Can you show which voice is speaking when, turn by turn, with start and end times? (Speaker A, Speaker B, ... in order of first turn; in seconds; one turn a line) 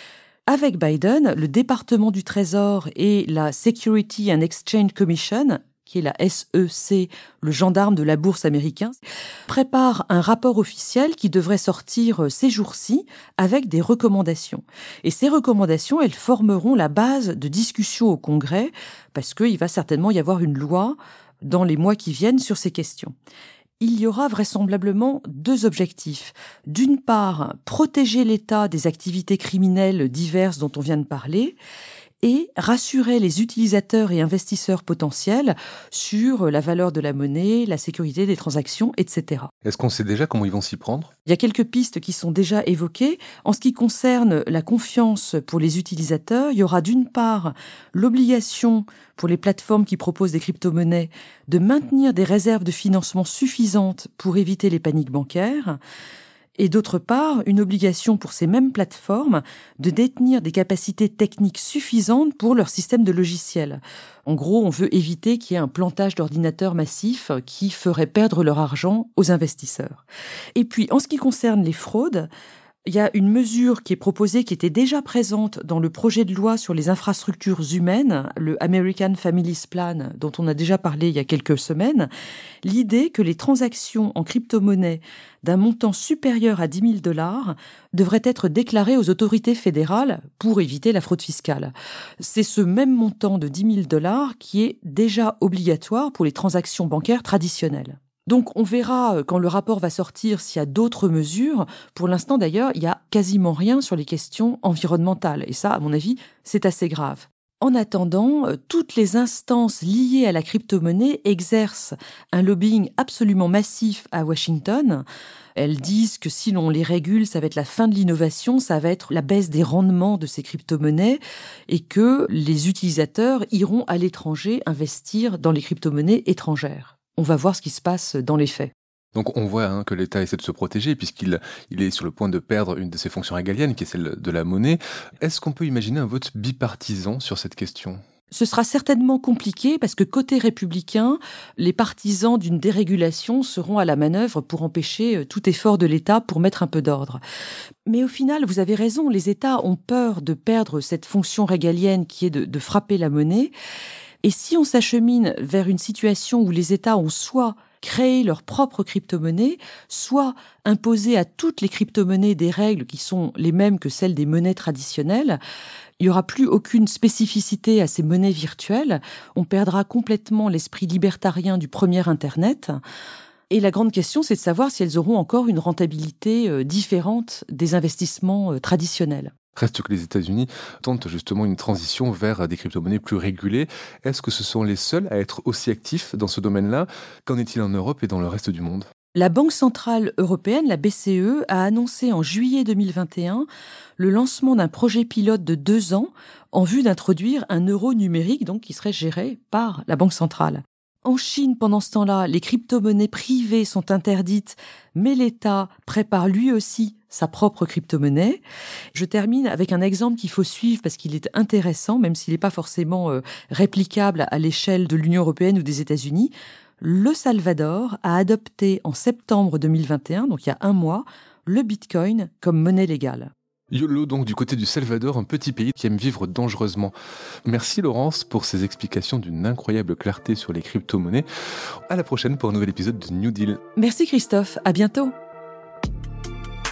Speaker A: 0.5-23.1
Speaker A: 23.8-31.6
Speaker A: 32.2-39.5
Speaker B: 39.6-41.1
Speaker A: 41.2-55.8
Speaker A: 56.6-70.0
Speaker A: 70.5-72.3
Speaker A: 72.8-82.1
Speaker A: 82.6-115.0
Speaker A: 115.5-128.7
Speaker B: 129.1-138.0
Speaker A: 138.3-147.2
Speaker A: 147.8-153.5
Speaker A: 154.2-165.4
Speaker A: 166.0-172.8
Speaker A: 173.5-179.3
Speaker B: 179.6-188.9
Speaker A: 189.1-208.4
Speaker A: 208.9-223.3
Speaker B: 223.7-226.9
Speaker B: 227.5-231.2
Speaker B: 231.9-233.6
Speaker A: 233.8-235.1